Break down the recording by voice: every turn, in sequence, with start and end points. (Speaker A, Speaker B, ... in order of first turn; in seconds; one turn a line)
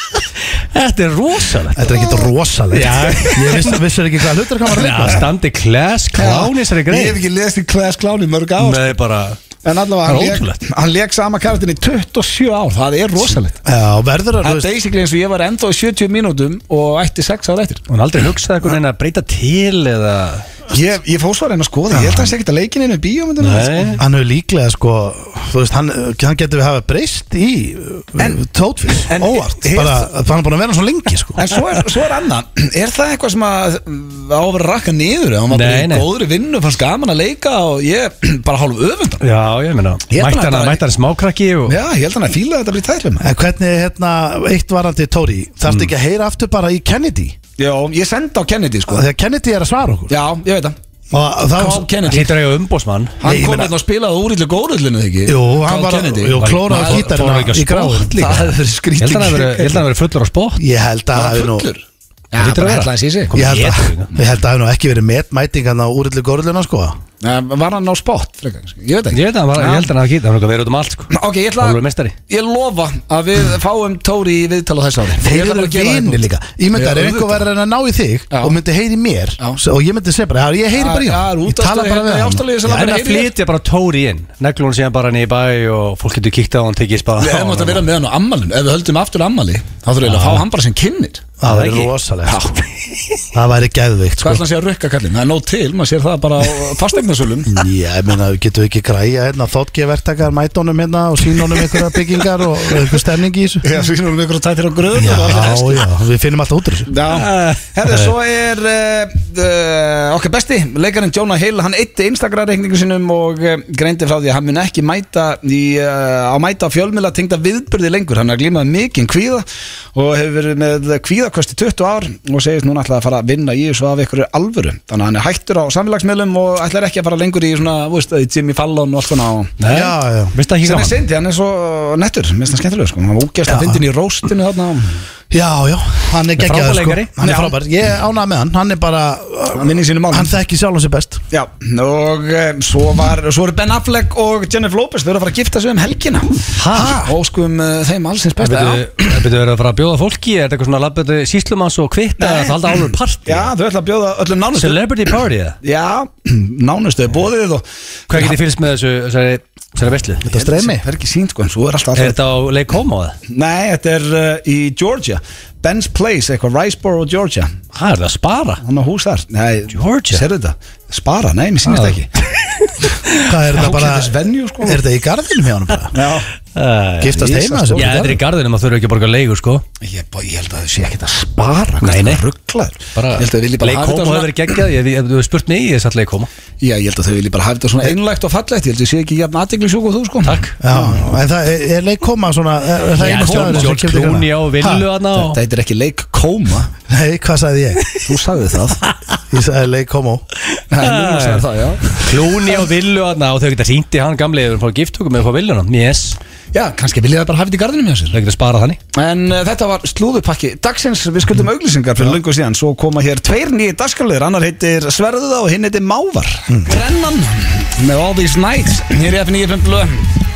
Speaker A: 0.2-2.0
Speaker B: 1.8-5.3
Speaker A: 2.7-3.8
Speaker A: 4.7-7.2
Speaker C: 6.2-8.9
Speaker A: 8.6-9.4
Speaker C: 9.6-13.6
Speaker A: 10.0-10.6
Speaker B: 13.6-14.7
Speaker C: 14.4-17.8
Speaker A: 17.9-20.5
Speaker C: 20.7-24.0
Speaker B: 21.9-22.3
Speaker A: 23.4-24.0
Speaker B: 24.0-31.4
Speaker C: 28.9-30.1
Speaker C: 31.4-39.2
Speaker A: 35.5-36.0
Speaker A: 39.2-41.8
Speaker C: 40.1-40.8
Speaker C: 41.7-43.3
Speaker B: 43.2-47.4
Speaker C: 47.6-49.0
Speaker B: 48.9-50.1
Speaker C: 50.1-50.8
Speaker B: 51.1-51.9
Speaker C: 51.5-52.3
Speaker A: 52.0-53.2
Speaker C: 53.2-57.1
Speaker B: 53.2-53.7
Speaker B: 55.2-58.4
Speaker A: 56.4-60.6
Speaker C: 58.2-59.8
Speaker B: 60.6-61.7
Speaker C: 61.1-63.3
Speaker A: 62.4-64.1
Speaker B: 63.3-67.0
Speaker C: 67.2-69.9
Speaker A: 69.1-72.1
Speaker C: 71.1-76.2
Speaker B: 75.2-82.4
Speaker C: 76.7-77.4
Speaker C: 78.3-78.5
Speaker C: 80.7-83.3
Speaker A: 82.6-87.8
Speaker C: 87.2-91.3
Speaker A: 90.0-90.4
Speaker B: 91.4-92.5
Speaker A: 91.4-91.9
Speaker C: 92.2-92.6
Speaker B: 93.3-94.4
Speaker C: 94.2-97.5
Speaker B: 97.5-103.7
Speaker C: 103.6-105.8
Speaker B: 105.0-106.9
Speaker C: 106.9-129.6
Speaker A: 107.1-108.1
Speaker A: 129.6-131.0
Speaker B: 129.7-130.3
Speaker C: 130.6-135.0
Speaker B: 133.5-133.8
Speaker B: 135.3-141.2
Speaker A: 136.4-137.1
Speaker C: 137.2-137.5
Speaker C: 139.5-140.3
Speaker C: 141.3-149.2
Speaker A: 146.5-147.1
Speaker A: 148.4-153.5
Speaker C: 152.2-158.4
Speaker A: 154.6-155.6
Speaker A: 158.1-160.3
Speaker B: 160.2-160.8
Speaker C: 160.3-162.2
Speaker A: 161.9-163.2
Speaker C: 163.3-167.5
Speaker A: 167.7-168.6
Speaker C: 168.6-172.1
Speaker A: 169.7-170.2
Speaker A: 171.7-173.2
Speaker B: 173.2-176.0
Speaker C: 173.5-174.8
Speaker C: 175.9-176.3
Speaker A: 176.5-179.6
Speaker B: 177.0-178.2
Speaker C: 177.1-178.2
Speaker C: 179.8-184.6
Speaker A: 181.8-182.2
Speaker A: 182.9-186.3
Speaker C: 186.6-191.1
Speaker A: 190.2-190.5
Speaker B: 190.6-194.9
Speaker A: 193.0-195.4
Speaker C: 193.0-193.7
Speaker C: 195.1-196.7
Speaker B: 196.9-197.8
Speaker C: 198.0-198.8
Speaker B: 199.3-200.2
Speaker C: 200.7-202.5
Speaker A: 200.8-206.2
Speaker C: 206.5-208.2
Speaker A: 208.1-208.8
Speaker C: 208.9-220.1